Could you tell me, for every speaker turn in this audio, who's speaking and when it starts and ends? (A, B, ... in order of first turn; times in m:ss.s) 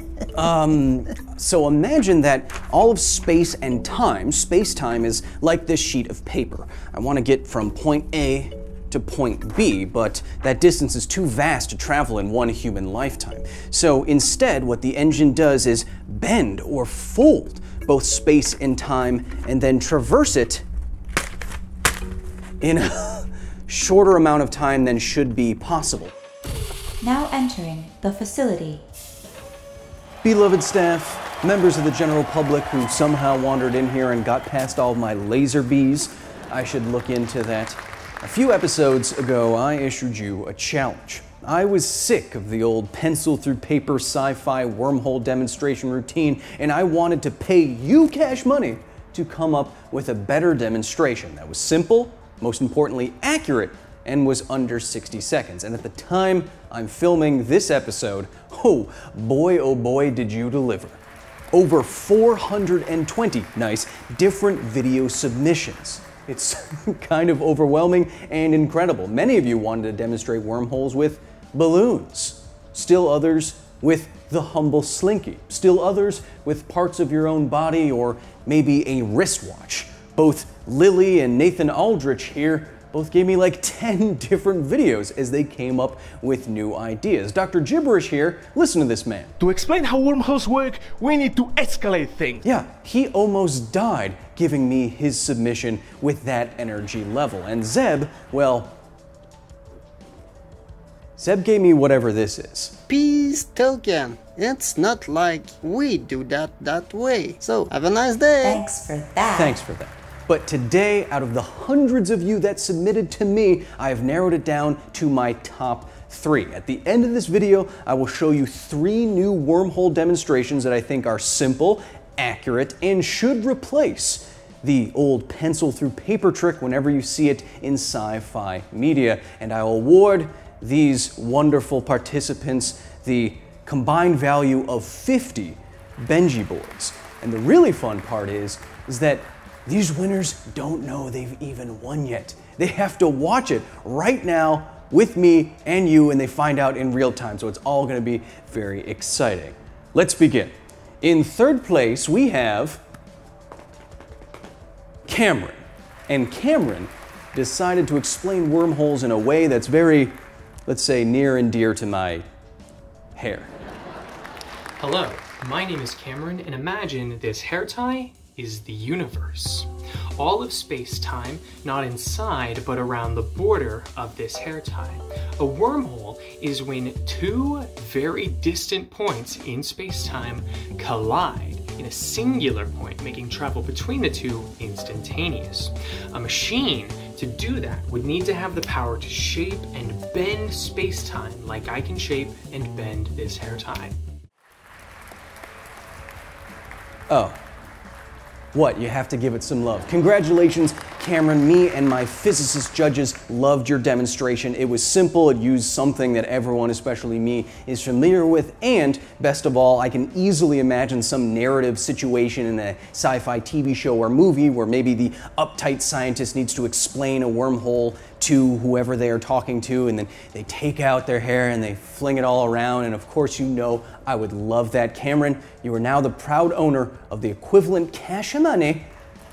0:00.4-0:20.6 A
0:22.6-0:26.1 A
0:27.0-0:28.8 B
0:30.2-1:01.0 A
1:01.5-1:29.3 A
1:29.4-1:32.4 C
1:32.4-1:38.7 A
1:41.2-1:42.8 A
1:42.9-1:48.6 D
1:48.4-1:49.6 B
1:49.3-2:32.8 A
2:35.1-2:40.2 A
2:40.7-2:42.2 A
2:43.2-2:43.5 A
2:44.8-3:14.0 E
3:17.1-3:17.4 A
3:18.5-3:48.9 A